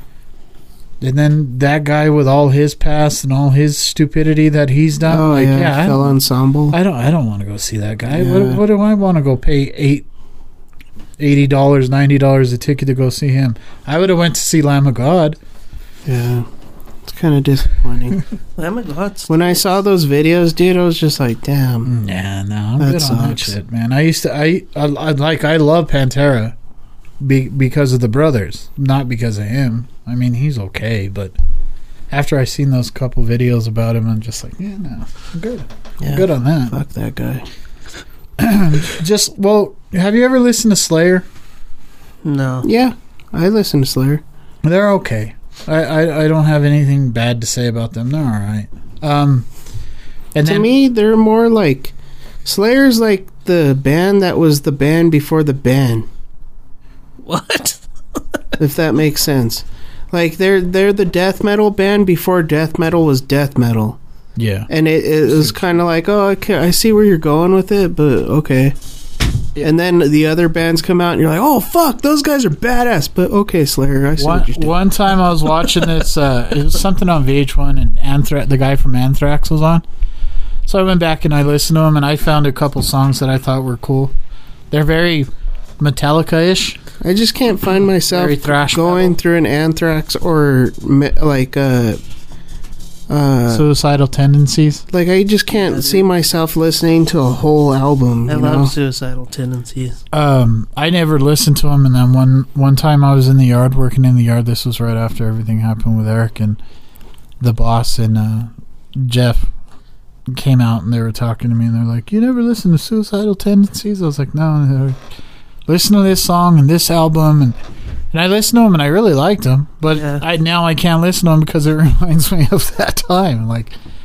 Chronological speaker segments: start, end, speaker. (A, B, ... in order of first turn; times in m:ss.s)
0:01.0-0:06.2 A
0:05.0-0:06.8 B
0:06.7-0:10.0 A
0:08.1-0:08.6 B
0:11.2-0:15.4 A
0:16.0-0:16.5 B
0:17.0-0:18.2 B
0:18.6-0:19.6 C
0:19.3-0:21.9 B
0:21.8-0:26.5 A
0:22.8-0:23.5 B
0:27.2-0:31.3 A
0:32.1-0:36.8 A
0:36.0-0:37.4 B
0:38.4-0:41.2 A
0:42.2-0:42.7 C
0:42.6-0:44.2 B
0:44.6-0:49.4 A
0:50.3-0:50.7 A
0:50.4-0:51.9 B
0:52.4-0:56.1 B
0:57.2-0:57.8 C
0:58.6-1:04.0 B
1:04.4-1:04.7 A
1:04.7-1:08.7 B
1:09.6-1:14.8 B
1:14.2-1:19.8 A
1:20.6-1:24.1 A
1:24.7-1:26.8 A
1:27.0-1:32.0 B
1:28.1-1:29.2 A
1:33.1-1:33.6 B
1:33.5-1:34.8 A
1:34.9-1:38.7 B
1:35.5-1:36.1 C
1:38.3-1:40.0 C
1:40.1-1:46.6 A
1:47.4-1:49.5 A
1:50.3-1:55.0 A
1:55.7-1:57.6 A
1:58.1-2:03.7 A
1:59.9-2:00.2 C